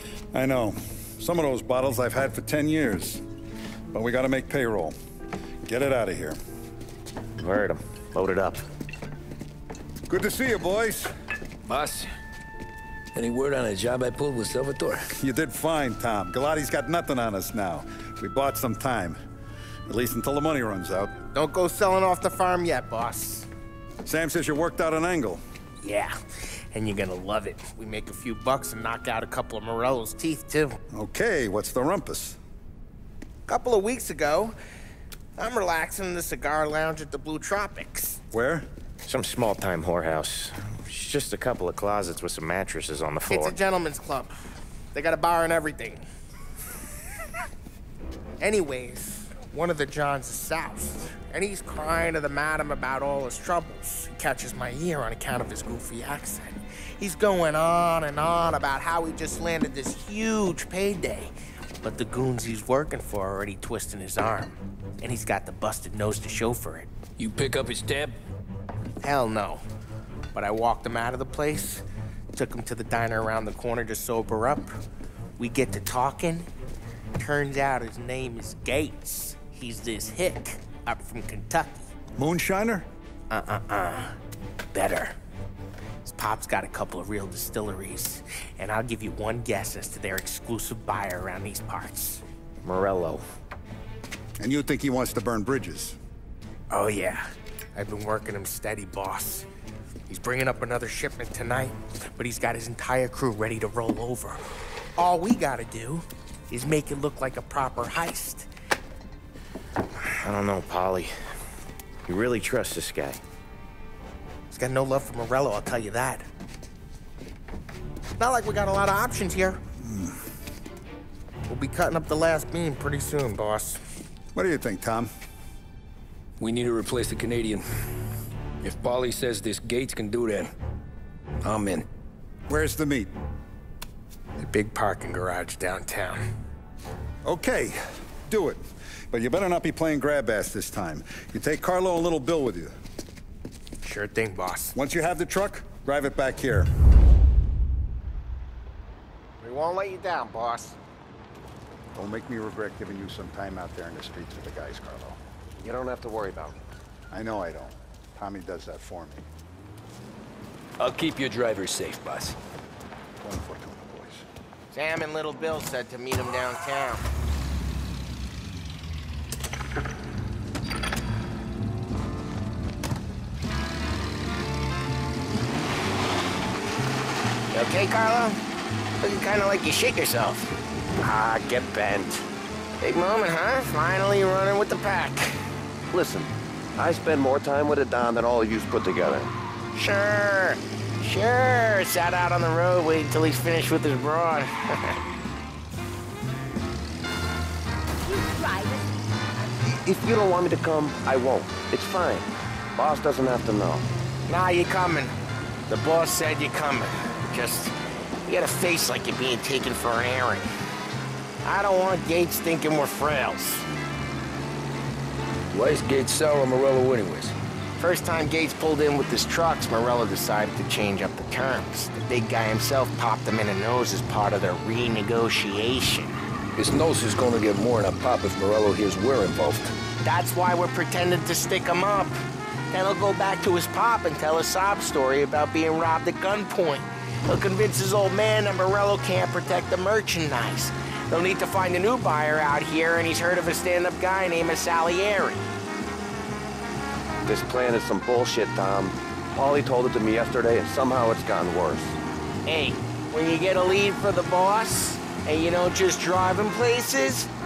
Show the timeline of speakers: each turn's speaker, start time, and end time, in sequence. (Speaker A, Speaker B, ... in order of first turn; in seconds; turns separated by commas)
Speaker A: 0.3-3.2, Speaker A: 3.9-5.0, Speaker A: 5.7-6.4, Speaker B: 7.4-8.6, Speaker A: 10.1-11.1, Speaker C: 11.7-12.1, Speaker C: 13.1-15.1, Speaker A: 15.1-19.2, Speaker A: 19.9-21.1, Speaker D: 21.3-23.5, Speaker A: 24.1-25.4, Speaker D: 25.8-26.2, Speaker D: 26.7-30.8, Speaker A: 30.9-32.4, Speaker D: 33.5-34.5, Speaker D: 35.4-38.2, Speaker A: 38.3-38.7, Speaker B: 39.1-43.6, Speaker D: 43.3-44.3, Speaker D: 44.9-46.0, Speaker D: 48.4-66.9, Speaker C: 67.2-68.2, Speaker D: 69.0-69.6, Speaker D: 70.3-74.7, Speaker D: 75.4-76.5, Speaker D: 77.2-81.9, Speaker A: 82.2-82.9, Speaker D: 83.3-84.2, Speaker D: 84.7-85.1, Speaker D: 86.0-92.2, Speaker B: 92.6-93.2, Speaker A: 94.4-96.0, Speaker D: 96.7-99.5, Speaker D: 100.1-104.4, Speaker D: 105.0-108.5, Speaker B: 110.0-111.1, Speaker B: 112.1-113.2, Speaker D: 114.5-116.3, Speaker D: 118.2-119.6, Speaker A: 119.8-120.2, Speaker D: 121.5-123.8, Speaker A: 124.3-125.1, Speaker C: 126.4-127.6, Speaker C: 128.6-130.5, Speaker C: 131.4-131.9, Speaker A: 132.5-133.1, Speaker D: 134.4-136.2, Speaker A: 137.2-142.7, Speaker D: 143.8-144.7, Speaker A: 144.8-146.7, Speaker D: 149.4-150.8, Speaker A: 151.9-155.2, Speaker E: 155.6-156.6, Speaker A: 157.1-159.2, Speaker C: 160.8-162.4, Speaker A: 163.2-164.3, Speaker D: 164.7-167.1, Speaker D: 177.5-178.4, Speaker D: 179.0-180.5, Speaker E: 181.0-182.2, Speaker D: 182.8-185.3, Speaker E: 185.9-189.3, Speaker D: 189.7-195.0, Speaker E: 199.6-203.9, Speaker D: 204.3-205.1, Speaker D: 205.7-207.8, Speaker D: 208.3-210.5, Speaker D: 211.4-213.7, Speaker C: 215.5-217.4, Speaker D: 217.8-226.2, Speaker C: 226.6-229.7, Speaker D: 230.0-232.2, Speaker D: 232.7-245.5, Speaker E: 247.2-252.0, Speaker D: 252.5-257.3